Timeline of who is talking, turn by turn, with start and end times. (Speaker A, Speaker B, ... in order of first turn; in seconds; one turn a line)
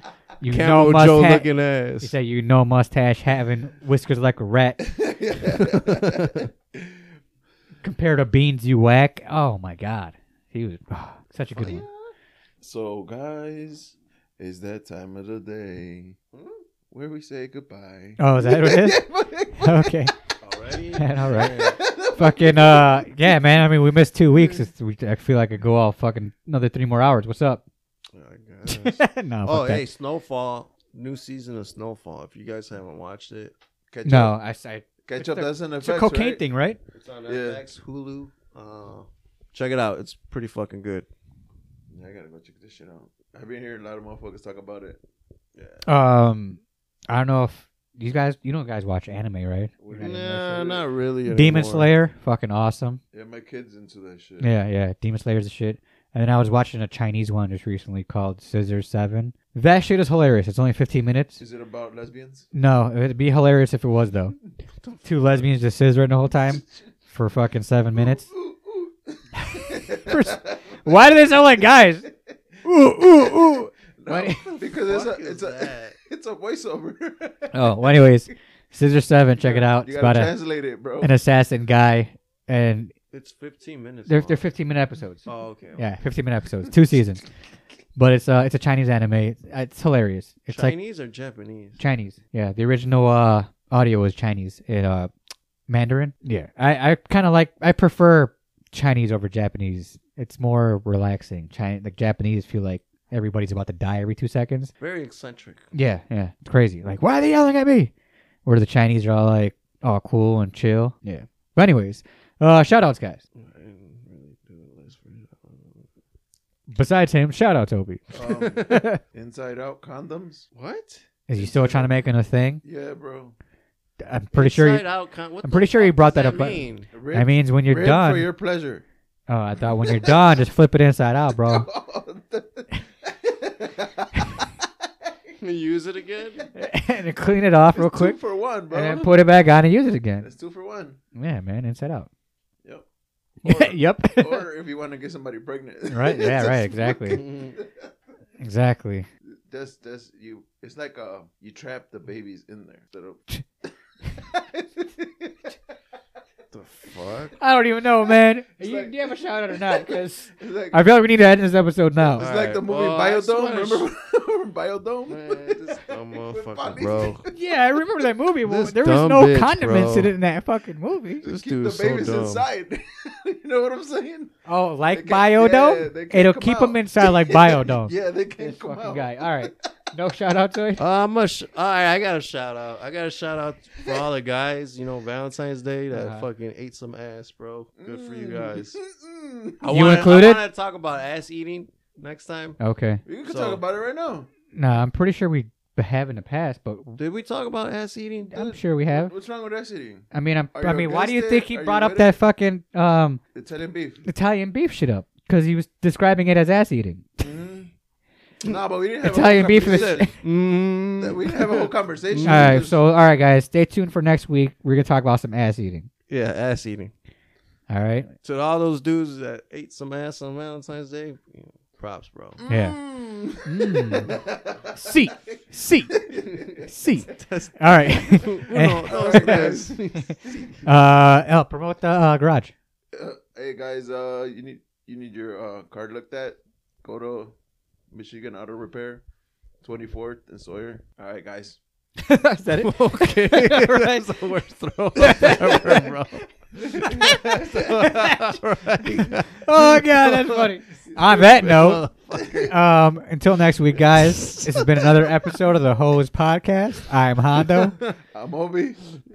Speaker A: 0.4-1.5
Speaker B: 0.4-2.1
Speaker A: 2.0-4.8
Speaker C: 4.8-7.0
Speaker B: 5.5-6.5
Speaker A: 7.8-11.8
Speaker B: 11.5-12.1
Speaker C: 12.6-16.2
Speaker B: 16.3-16.6
Speaker C: 16.9-20.1
Speaker A: 18.2-19.0
Speaker A: 19.5-20.1
Speaker B: 20.4-21.8
Speaker A: 20.9-27.6
Speaker C: 21.4-23.4
Speaker B: 28.1-33.5
Speaker A: 28.7-29.8
Speaker C: 33.9-34.4
Speaker A: 34.0-36.8
Speaker C: 35.0-36.4
Speaker B: 36.9-41.1
Speaker C: 37.2-37.6
Speaker C: 41.9-45.0
Speaker B: 45.5-45.8
Speaker A: 45.8-50.6
Speaker C: 49.8-50.8
Speaker B: 50.0-51.9
Speaker A: 51.3-53.0
Speaker C: 53.1-54.5
Speaker A: 54.4-61.4
Speaker C: 61.4-62.5
Speaker A: 62.5-64.4
Speaker B: 64.8-65.1
Speaker A: 65.0-68.2
Speaker C: 66.5-66.8
Speaker C: 67.9-71.0
Speaker A: 69.4-72.0
Speaker A: 72.6-74.5
Speaker C: 72.9-78.2
Speaker B: 74.8-76.0
Speaker A: 77.5-80.3
Speaker C: 79.4-81.1
Speaker A: 81.0-82.9
Speaker B: 83.1-84.5
Speaker A: 84.1-87.2
Speaker B: 85.2-85.8
Speaker A: 88.0-90.7
Speaker B: 90.5-91.8
Speaker A: 91.8-95.1
Speaker A: 95.7-104.7
Speaker B: 104.8-105.7
Speaker A: 105.7-107.9
Speaker A: 108.4-113.2
Speaker B: 113.3-115.8
Speaker A: 116.7-118.1
Speaker C: 118.1-120.5
Speaker B: 118.2-118.9
Speaker A: 118.7-119.0
Speaker B: 120.5-121.0
Speaker A: 121.3-122.6
Speaker C: 121.3-121.9
Speaker C: 122.6-123.3
Speaker A: 124.0-124.8
Speaker B: 124.3-126.9
Speaker A: 125.4-128.3
Speaker C: 126.9-128.8
Speaker A: 129.3-131.7
Speaker C: 129.8-130.4
Speaker C: 131.4-134.7
Speaker B: 135.4-136.4
Speaker A: 136.5-138.2
Speaker C: 137.7-139.1
Speaker A: 138.7-140.3
Speaker C: 140.2-141.0
Speaker A: 141.1-142.1
Speaker B: 143.4-143.8
Speaker A: 143.4-144.5
Speaker C: 144.2-147.7
Speaker A: 145.9-147.2
Speaker B: 147.2-147.6
Speaker A: 148.4-149.1
Speaker C: 149.3-153.3
Speaker C: 154.2-155.5
Speaker B: 156.5-157.4
Speaker A: 157.4-162.2
Speaker C: 158.6-160.8
Speaker C: 162.1-167.4
Speaker B: 162.2-163.8
Speaker B: 165.1-167.3
Speaker A: 167.3-171.2
Speaker B: 168.4-170.1
Speaker C: 171.2-174.3
Speaker B: 171.2-172.4
Speaker A: 174.4-180.8
Speaker C: 174.9-179.5
Speaker B: 180.8-188.8
Speaker A: 185.9-186.2
Speaker C: 187.8-190.0
Speaker B: 189.6-192.6
Speaker A: 189.7-190.4
Speaker A: 192.6-193.0
Speaker C: 193.1-194.3
Speaker B: 193.2-193.6
Speaker A: 194.5-197.0
Speaker B: 197.0-198.3
Speaker A: 198.3-199.1
Speaker C: 198.3-202.2
Speaker A: 200.1-203.2
Speaker C: 203.3-204.1
Speaker A: 204.0-207.1
Speaker C: 207.2-207.7
Speaker C: 208.4-210.1
Speaker A: 209.0-210.1
Speaker B: 209.5-212.7
Speaker C: 211.0-212.8
Speaker A: 212.2-215.9
Speaker B: 216.1-216.9
Speaker A: 217.7-218.1
Speaker B: 218.2-222.4
Speaker C: 222.4-226.7
Speaker A: 222.5-222.8
Speaker A: 223.4-224.1
Speaker A: 224.8-226.0
Speaker B: 226.5-230.2
Speaker A: 226.6-230.1
Speaker C: 228.9-230.5
Speaker A: 230.6-232.5
Speaker C: 232.9-237.3
Speaker C: 237.9-239.0
Speaker C: 239.6-241.6
Speaker A: 242.0-244.1
Speaker B: 242.6-252.5
Speaker A: 245.0-245.9
Speaker A: 246.8-248.4
Speaker C: 246.8-247.4
Speaker A: 249.4-251.9
Speaker A: 252.5-257.8
Speaker B: 254.0-254.6
Speaker B: 257.6-257.9
Speaker C: 258.1-259.0